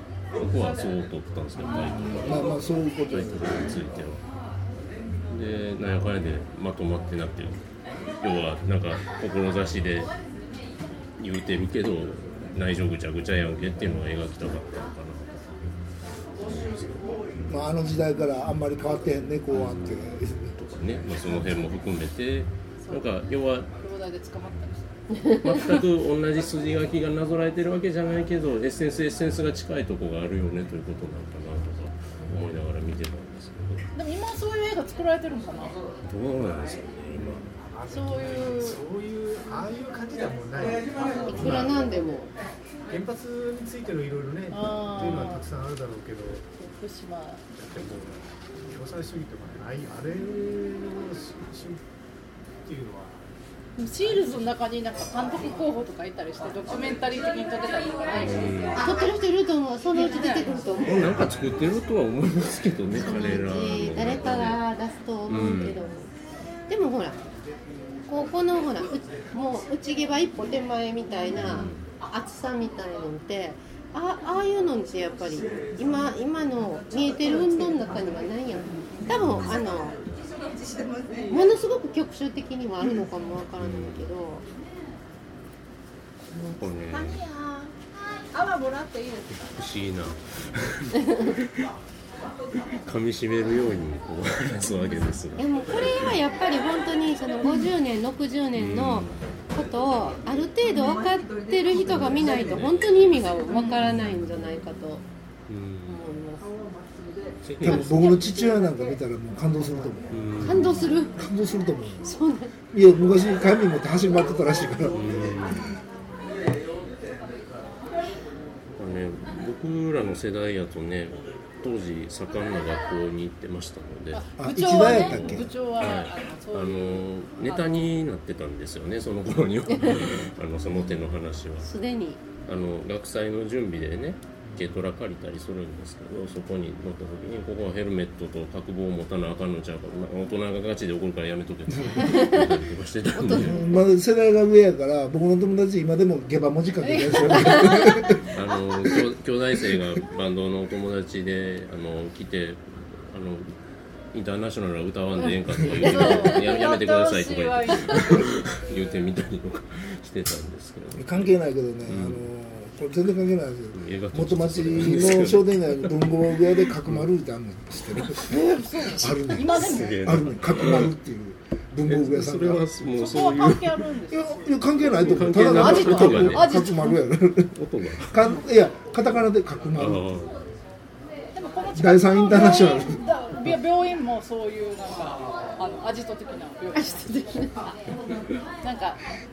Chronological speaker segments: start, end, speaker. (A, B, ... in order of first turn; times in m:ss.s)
0:00.4-0:04.2 A
0:01.6-0:03.8 B
0:05.1-0:07.6 A
0:08.2-0:10.1 A
0:11.2-0:15.6 A
0:16.4-0:17.6 A
0:17.5-0:21.2 B
0:19.5-0:23.7 A
0:23.8-0:24.8 C
0:25.1-0:25.8 D
0:25.4-0:33.8 A
0:33.9-0:35.8 C
0:36.1-0:37.4 A
0:37.3-0:41.3 E
0:37.9-0:38.8 C
0:41.2-0:42.3 D
0:41.3-0:41.8 A
0:42.9-0:46.4 E
0:44.5-0:45.4 C
0:46.6-0:47.5 C
0:47.5-0:51.8 E
0:52.6-0:53.2 E
0:53.8-0:58.8 C
0:58.2-0:58.8 A
0:58.8-1:01.1 D
0:59.9-1:00.5 C
1:00.8-1:04.6 A
1:02.9-1:06.1 D
1:05.3-1:05.8 A
1:06.7-1:07.2 D
1:08.1-1:20.0 D
1:11.4-1:11.8 A
1:19.2-1:19.6 A
1:21.1-1:24.5 D
1:23.6-1:24.1 A
1:26.4-1:27.7 C
1:26.6-1:27.2 A
1:28.3-1:29.6 C
1:29.5-1:31.6 A
1:32.8-1:36.1 A
1:35.4-1:45.0 D
1:38.6-1:39.2 A
1:41.7-1:43.9 A
1:45.5-1:46.0 A
1:45.9-1:46.4 D
1:47.4-1:48.4 A
1:47.6-1:50.5 B
1:50.1-1:50.9 A
1:50.4-1:51.1 D
1:51.2-1:52.1 B
1:52.0-1:52.5 D
1:52.7-1:55.1 B
1:54.9-1:55.8 A
1:58.8-2:04.2 A
2:04.1-2:07.9 C
2:04.4-2:05.5 B
2:04.8-2:11.7 A
2:09.8-2:10.1 D
2:11.6-2:12.2 D
2:12.5-2:23.6 A
2:21.7-2:22.0 B
2:22.0-2:22.4 D
2:23.2-2:23.6 D
2:23.4-2:28.2 B
2:26.8-2:27.6 C
2:27.5-2:33.5 A
2:34.1-2:41.3 A
2:35.7-2:39.0 C
2:35.9-2:36.3 D
2:40.9-2:52.6 B
2:41.9-2:42.2 A
2:43.7-2:46.1 A
2:48.2-2:50.1 C
2:49.0-2:50.9 A
2:51.9-2:53.8 A
2:52.9-2:57.0 C
2:54.1-3:00.0 B
2:55.0-2:56.7 A
2:57.6-2:58.4 A
2:59.8-3:00.4 A
3:01.4-3:07.7 C
3:01.8-3:03.0 B
3:07.1-3:07.4 D
3:08.6-3:09.0 C